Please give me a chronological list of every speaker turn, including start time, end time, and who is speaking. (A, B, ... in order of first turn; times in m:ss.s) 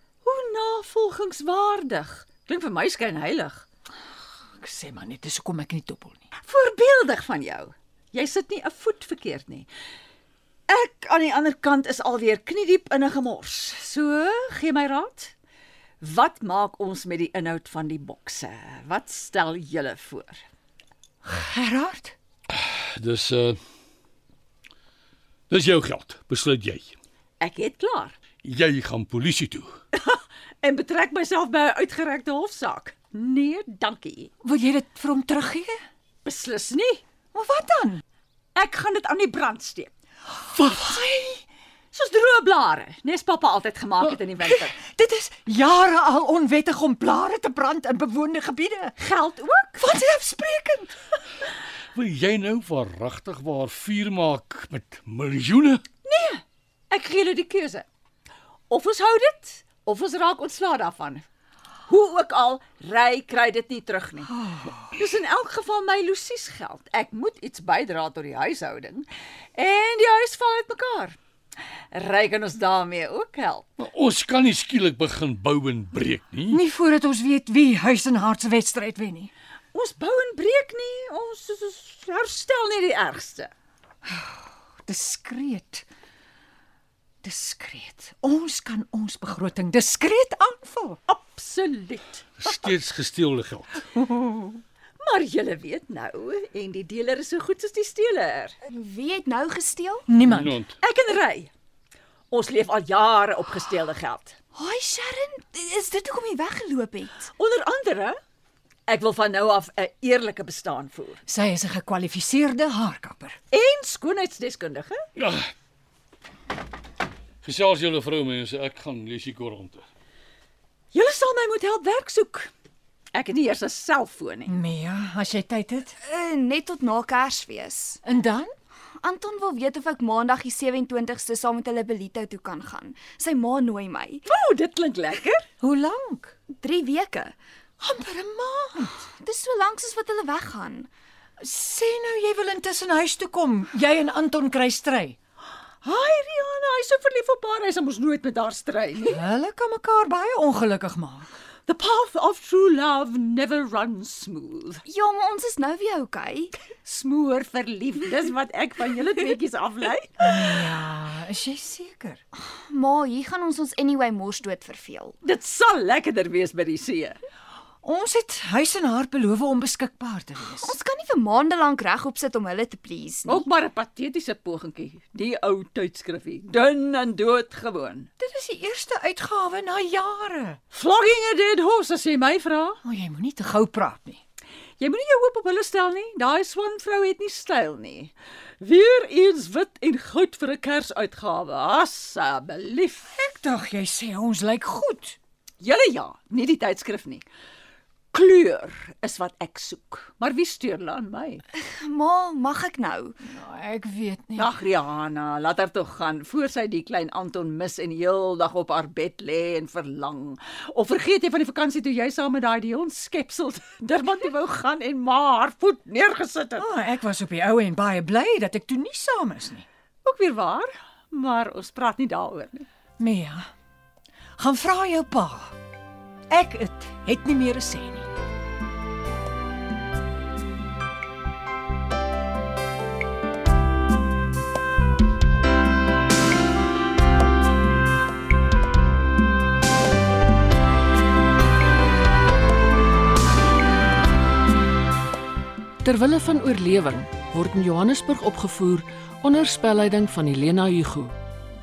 0:00.2-0:03.7 A
0:04.6-0:06.3 B
0:06.4-0:09.7 A
0:10.7-0:15.3 A
0:16.0-0:20.4 A
0:21.2-0:22.1 B
0:22.5-0:23.6 C
0:25.5-0:27.0 C
0:27.4-0:28.2 A
0:28.4-0:29.7 C
0:29.9-0:34.3 A
0:34.4-0:35.8 B
0:36.2-0:37.0 A
0:37.3-0:38.0 B
0:38.6-0:39.9 A
0:40.5-0:41.4 B
0:41.9-0:44.8 A
0:44.4-0:49.0 B
0:49.0-0:49.9 A
0:49.8-0:51.0 B
0:52.0-0:55.8 C
0:56.0-0:57.9 A
0:58.7-1:01.2 A
1:01.9-1:11.2 A
1:11.9-1:13.7 A
1:13.8-1:16.6 C
1:16.5-1:19.3 B
1:19.7-1:23.5 A
1:24.0-1:25.8 B
1:27.2-1:31.0 B
1:31.1-1:32.7 A
1:32.4-1:33.9 C
1:34.0-1:34.6 B
1:35.0-1:38.6 A
1:38.7-1:40.1 D
1:40.1-1:40.6 B
1:40.2-1:40.8 C
1:40.8-1:41.5 A
1:42.3-1:44.4 A
1:44.5-1:47.2 D
1:47.2-1:48.2 A
1:48.9-1:51.2 A
1:51.3-1:53.4 B
1:53.5-1:55.0 A
1:55.2-1:55.5 C
1:57.4-1:59.8 C
2:00.9-2:02.5 A
2:03.1-2:04.5 A
2:04.5-2:06.0 B
2:06.0-2:08.0 D
2:08.0-2:08.5 B
2:09.0-2:14.2 D
2:14.2-2:15.5 A
2:15.6-2:16.3 B
2:16.5-2:17.4 D
2:17.8-2:19.0 B
2:19.2-2:20.9 D
2:21.4-2:25.2 B
2:25.8-2:29.2 A
2:29.1-2:31.3 B
2:31.7-2:34.8 A
2:34.9-2:36.5 D
2:36.7-2:40.5 A
2:40.2-2:42.2 B
2:42.4-2:45.2 D
2:45.2-2:47.2 A
2:47.8-2:50.8 B
2:50.6-2:53.5 D
2:53.2-2:58.1 A
2:58.2-3:00.6 B
3:00.7-3:02.8 A
3:02.8-3:04.2 B
3:04.8-3:13.1 A
3:13.1-3:15.2 B
3:15.6-3:17.2 A
3:18.1-3:21.4 A
3:21.5-3:23.2 D
3:23.3-3:24.5 B
3:24.4-3:36.7 A
3:36.6-3:39.6 B
3:40.0-3:42.6 A
3:43.0-3:43.5 B
3:44.4-3:45.5 B
3:46.3-3:48.1 B
4:05.8-4:11.1 E